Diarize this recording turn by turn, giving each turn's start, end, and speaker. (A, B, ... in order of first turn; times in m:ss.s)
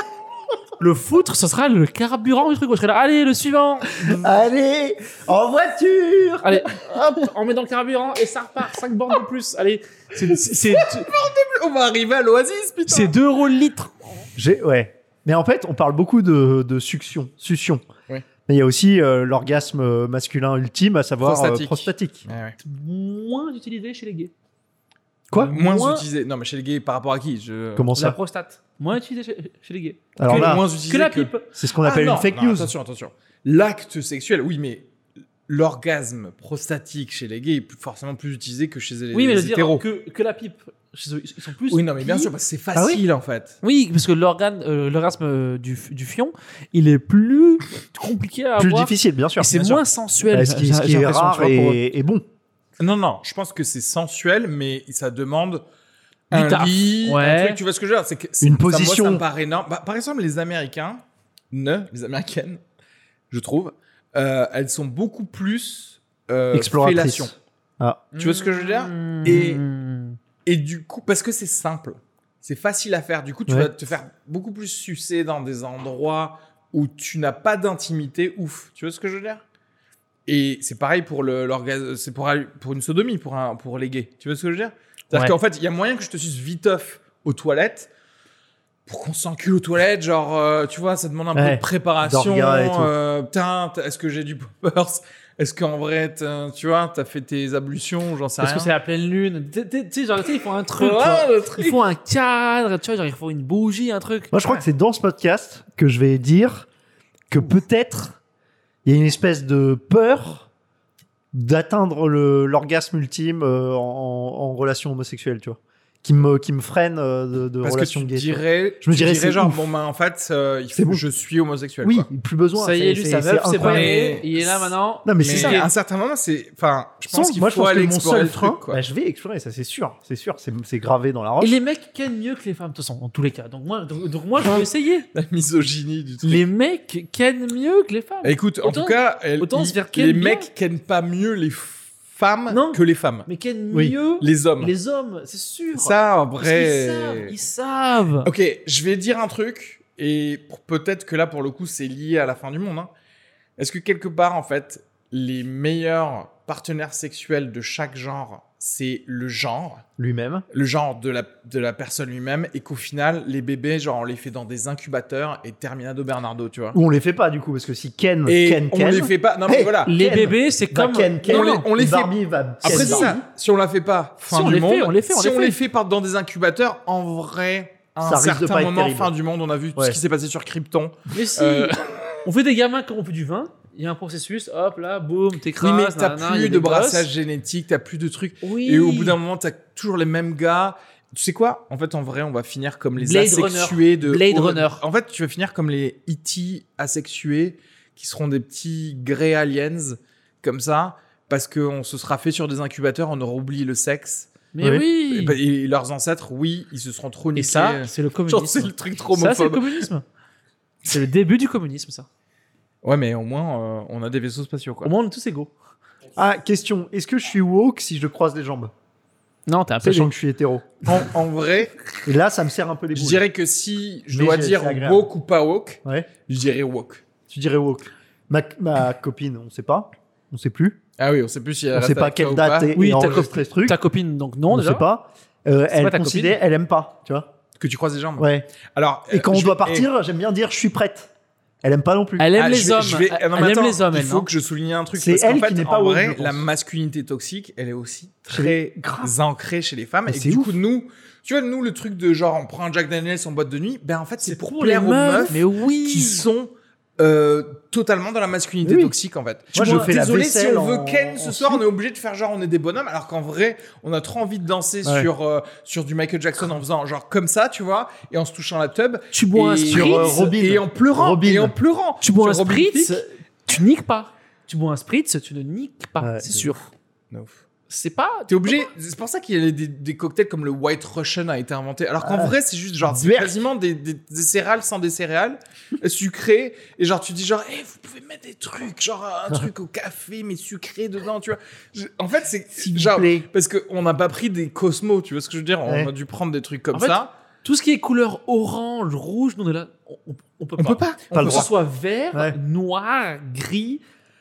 0:00.8-0:04.2 A
0:04.0-0:06.7 B
0:06.4-0:11.1 A
0:10.2-0:13.1 C
0:12.9-0:14.1 A
0:14.4-0:17.8 B
0:18.5-0:22.2 B
0:21.2-0:22.6 C
0:22.6-0:24.3 A
0:25.4-0:26.0 A
0:25.5-0:27.9 C
0:27.8-0:28.2 B
0:27.9-0:31.5 A
0:30.2-0:30.6 B
0:30.2-0:34.9 C
0:31.5-0:32.7 B
0:35.5-0:39.8 C
0:39.1-0:42.2 A
0:41.7-0:43.6 C
0:42.7-0:43.0 B
0:43.6-0:51.8 A
0:48.6-0:52.2 B
0:52.8-0:55.6 C
0:56.3-0:57.6 A
0:56.3-1:02.6 C
0:58.4-0:59.2 B
1:03.3-1:07.3 C
1:06.5-1:08.0 B
1:08.1-1:10.2 A
1:08.2-1:09.6 C
1:10.4-1:19.4 C
1:20.3-1:27.9 C
1:28.9-1:38.7 C
1:31.3-1:32.9 B
1:38.4-1:44.3 A
1:40.8-1:41.8 C
1:44.3-1:46.7 B
1:47.3-1:48.2 B
1:48.8-1:50.5 B
1:51.3-1:59.6 B
1:57.6-2:02.1 C
2:00.7-2:01.0 B
2:01.8-2:04.0 B
2:02.6-2:05.7 A
2:03.6-2:08.8 C
2:05.0-2:05.6 B
2:07.1-2:11.6 B
2:11.4-2:15.0 A
2:14.4-2:16.4 C
2:16.2-2:20.5 A
2:18.2-2:23.3 C
2:22.5-2:28.3 A
2:24.2-2:24.7 C
2:25.7-2:27.3 C
2:28.2-2:32.9 C
2:33.6-2:39.8 C
2:40.0-2:40.4 B
2:40.5-2:46.8 C
2:46.7-2:53.2 B
2:48.2-2:49.9 C
2:49.8-2:51.7 A
2:51.2-3:02.2 C
2:52.6-2:53.1 A
2:54.3-2:55.6 A
2:58.0-2:59.1 B
3:01.1-3:07.1 A
3:05.6-3:24.3 C
3:08.4-3:09.2 A
3:13.0-3:14.8 A
3:24.5-3:25.4 A
3:25.0-3:29.9 C
3:27.4-3:30.0 A
3:30.8-3:32.1 A
3:32.8-3:34.9 C
3:34.8-3:35.5 A
3:36.2-3:38.7 B
3:39.5-3:40.1 A
3:39.8-3:40.8 B
3:40.8-3:41.8 C
3:42.0-3:43.2 B
3:42.9-3:47.0 C
3:44.1-3:45.1 B
3:47.3-3:50.8 B
3:51.0-3:52.7 C
3:51.7-3:53.8 B
3:52.7-3:54.8 A
3:54.5-3:57.3 B
3:55.7-3:56.4 A
3:57.6-3:59.9 C
3:58.2-3:58.5 B
3:59.1-4:01.1 B
4:01.6-4:02.3 B
4:02.2-4:04.3 A
4:02.4-4:33.0 C
4:05.0-4:06.4 B
4:08.3-4:09.1 B
4:10.1-4:10.5 B
4:14.2-4:16.2 A
4:18.6-4:18.9 B
4:19.5-4:21.6 B
4:19.6-4:19.9 A
4:24.8-4:25.1 B
4:29.1-4:30.3 A
4:29.7-4:31.5 B
4:32.0-4:36.7 A
4:36.0-4:36.3 B
4:37.1-4:37.4 C
4:37.7-4:38.6 A
4:38.3-4:57.1 C
4:42.0-4:42.3 B
4:42.8-4:43.4 B
4:52.6-4:53.3 B
4:55.6-4:55.9 B
4:56.7-5:03.8 A
5:00.6-5:01.5 C
5:01.1-5:01.5 B
5:02.1-5:02.4 B